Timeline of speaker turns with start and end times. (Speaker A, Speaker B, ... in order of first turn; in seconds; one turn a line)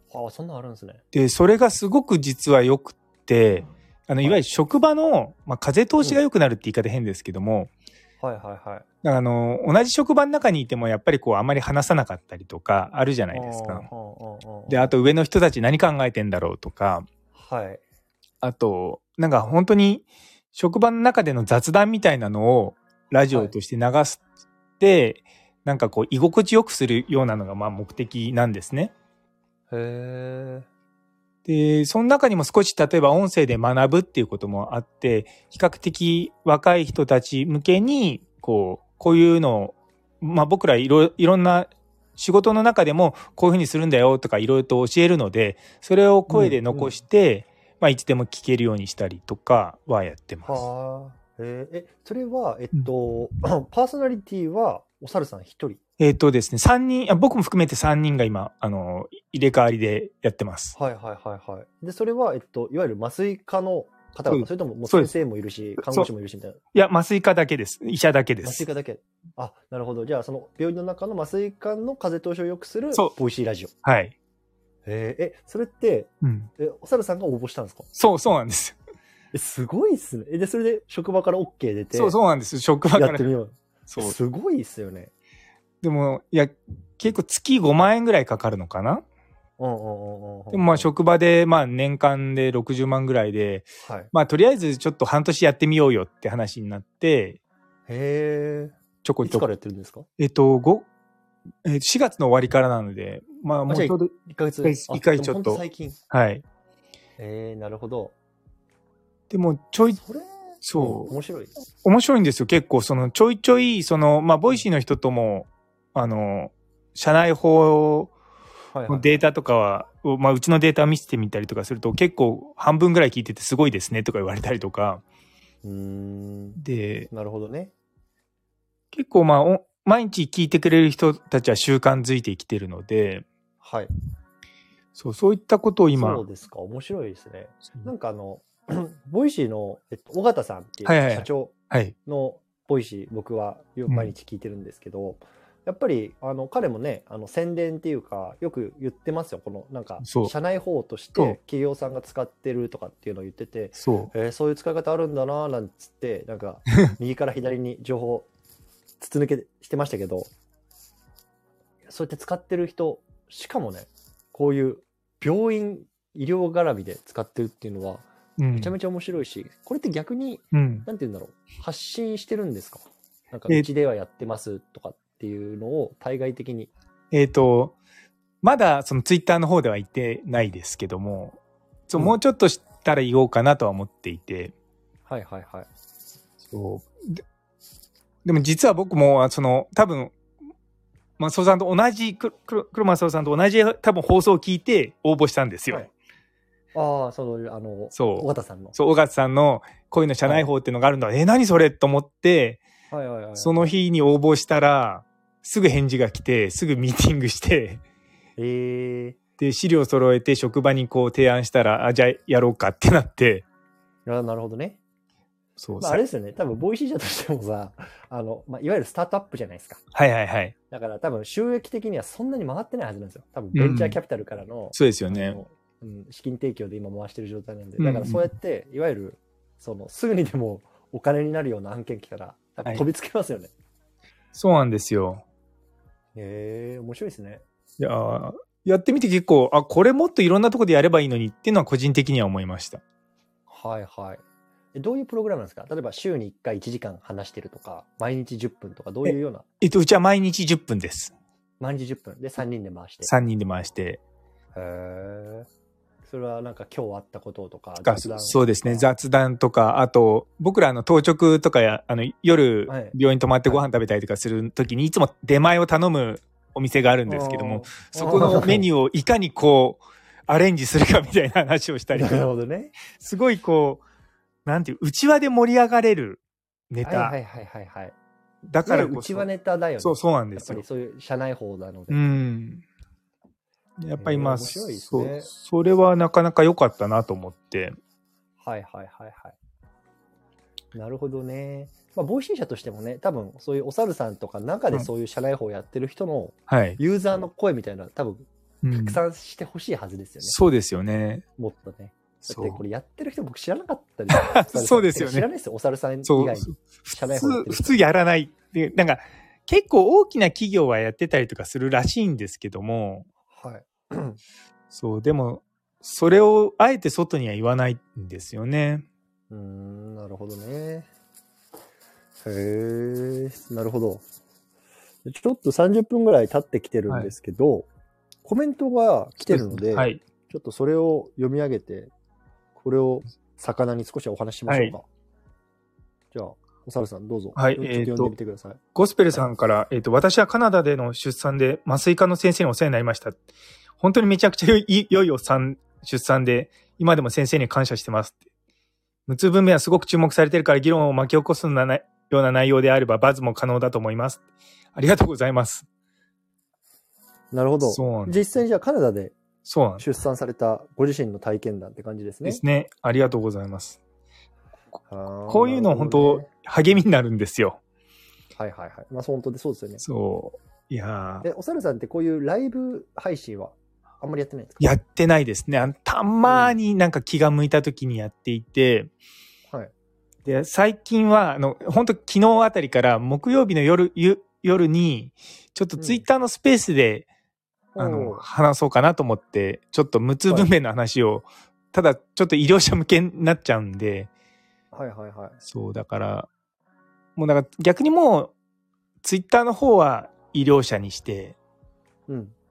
Speaker A: 0.1-1.0
Speaker B: 1.1-7.7
Speaker A: 8.2-8.8
Speaker B: 9.0-13.9
Speaker A: 13.3-14.9
Speaker B: 14.7-17.1
Speaker A: 17.3-17.8
Speaker B: 18.4-24.2
Speaker A: 23.3-23.5
Speaker B: 24.8-28.9
Speaker A: 29.7-30.7
Speaker B: 31.4-50.6
Speaker A: 46.3-47.0
Speaker A: 50.4-55.8
Speaker B: 56.0-60.7
Speaker A: 60.7-66.6
Speaker B: 64.3-65.1
Speaker B: 65.8-66.1
Speaker B: 66.7-68.7
Speaker A: 68.4-73.7
Speaker B: 73.8-74.1
Speaker A: 74.8-77.9
Speaker B: 76.2-76.5
Speaker B: 77.9-78.8
Speaker A: 79.3-82.2
Speaker B: 81.9-83.2
Speaker A: 82.9-85.1
Speaker B: 83.9-84.1
Speaker B: 85.8-89.0
Speaker A: 89.6-90.9
Speaker B: 90.5-97.4
Speaker A: 93.8-94.1
Speaker A: 97.9-100.0
Speaker B: 99.0-99.4
Speaker B: 100.2-100.8
Speaker B: 101.6-104.1
Speaker A: 103.7-106.0
Speaker B: 104.6-106.4
Speaker A: 107.2-108.1
Speaker B: 109.3-110.0
Speaker A: 109.9-111.5
Speaker B: 110.6-111.1
Speaker B: 111.8-118.1
Speaker A: 118.7-119.2
Speaker B: 118.9-125.0
Speaker A: 125.6-127.7
Speaker B: 126.6-127.1
Speaker B: 128.9-133.2
Speaker A: 133.6-133.9
Speaker B: 134.9-136.2
Speaker A: 135.9-158.3
Speaker B: 140.8-141.9
Speaker B: 143.9-144.1
Speaker B: 150.0-150.3
Speaker B: 153.8-154.1
Speaker A: 159.0-160.3
Speaker A: 161.9-176.7
Speaker B: 168.4-168.7
Speaker B: 170.5-170.9
Speaker B: 177.1-177.8
Speaker B: 178.4-184.5
Speaker A: 185.1-185.7
Speaker B: 186.4-187.2
Speaker B: 188.2-190.2
Speaker B: 191.2-195.9
Speaker A: 196.7-198.7
Speaker B: 197.9-202.6
Speaker A: 200.2-200.5
Speaker A: 202.9-203.7
Speaker B: 203.3-207.8
Speaker A: 208.4-209.2
Speaker B: 209.4-213.4
Speaker A: 214.1-214.8
Speaker B: 215.6-216.0
Speaker A: 215.8-219.8
Speaker B: 219.9-220.5
Speaker A: 220.7-233.5
Speaker B: 223.5-224.0
Speaker B: 224.7-225.4
Speaker B: 227.8-228.2
Speaker B: 234.3-235.2
Speaker A: 236.1-237.4
Speaker B: 237.8-242.8
Speaker A: 243.5-244.2
Speaker A: 244.7-249.4
Speaker B: 249.0-251.1
Speaker A: 251.6-253.1
Speaker B: 253.0-254.0
Speaker A: 254.5-255.5
Speaker A: 256.0-258.9
Speaker B: 257.8-272.2
Speaker A: 262.7-263.6
Speaker A: 267.1-268.7
Speaker A: 271.9-272.7
Speaker B: 272.9-273.8
Speaker B: 274.4-277.1
Speaker A: 276.8-277.9
Speaker B: 278.5-279.3
Speaker A: 278.6-282.0
Speaker B: 279.8-280.6
Speaker B: 281.9-282.6
Speaker B: 283.8-287.8
Speaker A: 284.0-285.3
Speaker A: 288.4-289.4
Speaker A: 290.7-300.4
Speaker B: 296.5-296.8
Speaker B: 298.6-299.0
Speaker B: 300.2-301.2
Speaker A: 301.4-307.8
Speaker B: 302.2-302.6
Speaker B: 304.1-305.3
Speaker B: 306.1-313.1
Speaker A: 313.3-314.2
Speaker B: 314.7-318.9
Speaker A: 319.3-320.9
Speaker A: 322.2-324.0
Speaker A: 325.0-327.7
Speaker A: 328.2-331.9
Speaker B: 329.2-330.0
Speaker A: 332.6-334.9
Speaker B: 334.5-334.7
Speaker A: 336.1-338.6
Speaker B: 337.4-338.1
Speaker B: 338.7-343.2
Speaker B: 343.8-348.2
Speaker B: 349.1-355.6
Speaker A: 357.3-359.2
Speaker B: 357.6-358.2
Speaker B: 359.4-359.8
Speaker A: 359.8-362.4
Speaker B: 362.2-363.8
Speaker A: 364.9-366.3
Speaker B: 365.3-367.6
Speaker A: 368.4-369.8
Speaker B: 369.8-371.3
Speaker A: 371.2-374.8
Speaker B: 374.6-378.9
Speaker A: 376.2-376.5
Speaker B: 380.2-387.1
Speaker A: 385.8-386.0
Speaker A: 387.7-388.2
Speaker B: 387.8-394.1
Speaker A: 394.7-395.4
Speaker B: 395.5-396.3
Speaker B: 397.1-398.3
Speaker B: 399.0-401.4
Speaker A: 402.1-402.3